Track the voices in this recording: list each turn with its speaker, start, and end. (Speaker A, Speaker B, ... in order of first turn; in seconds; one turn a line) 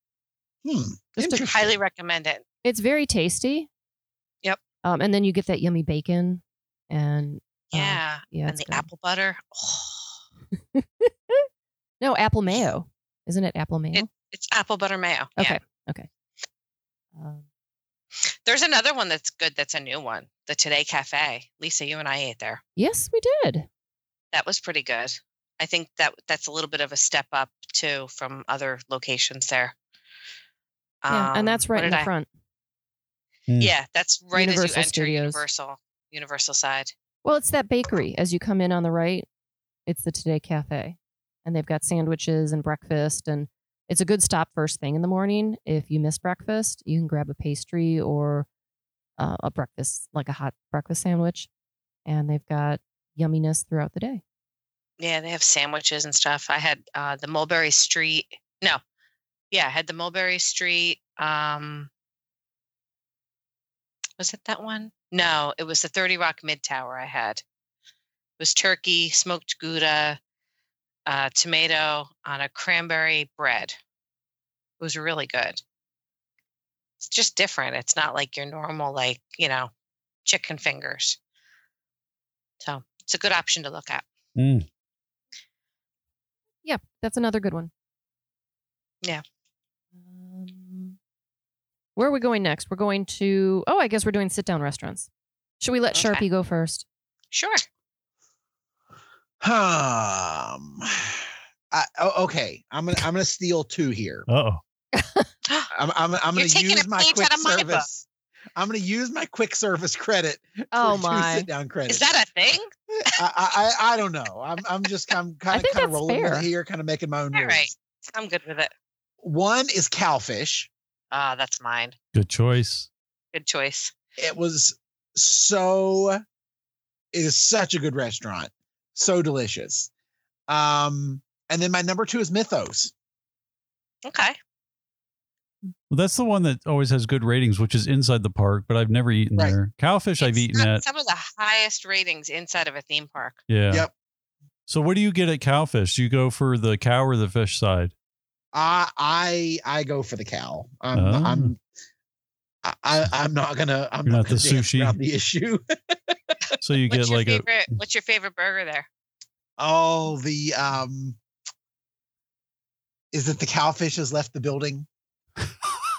Speaker A: 0.6-1.8
Speaker B: 1.2-1.4
Speaker C: 1.5-2.4
Speaker B: 2.6-3.7
Speaker B: 4.8-8.9
Speaker C: 7.7-10.1
Speaker B: 10.8-11.5
Speaker B: 12.0-14.1
Speaker C: 13.9-15.6
Speaker B: 15.4-16.1
Speaker B: 17.2-17.4
Speaker C: 18.4-22.6
Speaker B: 22.8-23.7
Speaker C: 24.3-29.8
Speaker C: 31.0-32.1
Speaker B: 31.1-32.3
Speaker D: 33.5-33.7
Speaker C: 33.6-36.9
Speaker B: 34.4-35.4
Speaker B: 37.2-39.3
Speaker B: 39.9-48.5
Speaker B: 49.2-51.5
Speaker B: 52.1-54.2
Speaker C: 55.0-58.8
Speaker C: 59.5-61.9
Speaker C: 64.2-67.4
Speaker C: 68.4-70.2
Speaker C: 71.1-73.8
Speaker C: 74.8-75.6
Speaker C: 77.0-79.7
Speaker C: 80.2-81.2
Speaker C: 82.6-84.0
Speaker D: 84.4-84.7
Speaker B: 86.6-87.7
Speaker B: 90.0-91.0
Speaker B: 92.0-95.1
Speaker B: 95.6-96.8
Speaker C: 95.9-96.2
Speaker C: 97.3-97.6
Speaker A: 99.4-104.3
Speaker D: 104.3-104.6
Speaker B: 105.0-105.3
Speaker A: 105.7-112.1
Speaker C: 106.3-107.9
Speaker B: 110.7-111.5
Speaker C: 111.9-112.7
Speaker A: 113.1-117.7
Speaker B: 115.5-116.5
Speaker C: 117.3-118.7
Speaker A: 119.2-120.7
Speaker C: 121.1-122.0
Speaker D: 122.1-122.9
Speaker C: 123.3-123.9
Speaker A: 124.2-126.2
Speaker A: 127.1-129.9
Speaker A: 130.5-132.9
Speaker C: 134.1-134.4
Speaker D: 135.9-140.8
Speaker C: 140.2-143.4
Speaker D: 143.5-143.9
Speaker D: 144.7-147.9
Speaker A: 148.5-151.6
Speaker D: 150.9-151.5
Speaker A: 152.6-156.3
Speaker D: 154.1-154.9
Speaker D: 156.6-157.5
Speaker C: 156.9-158.9
Speaker A: 159.6-161.2
Speaker A: 163.1-164.9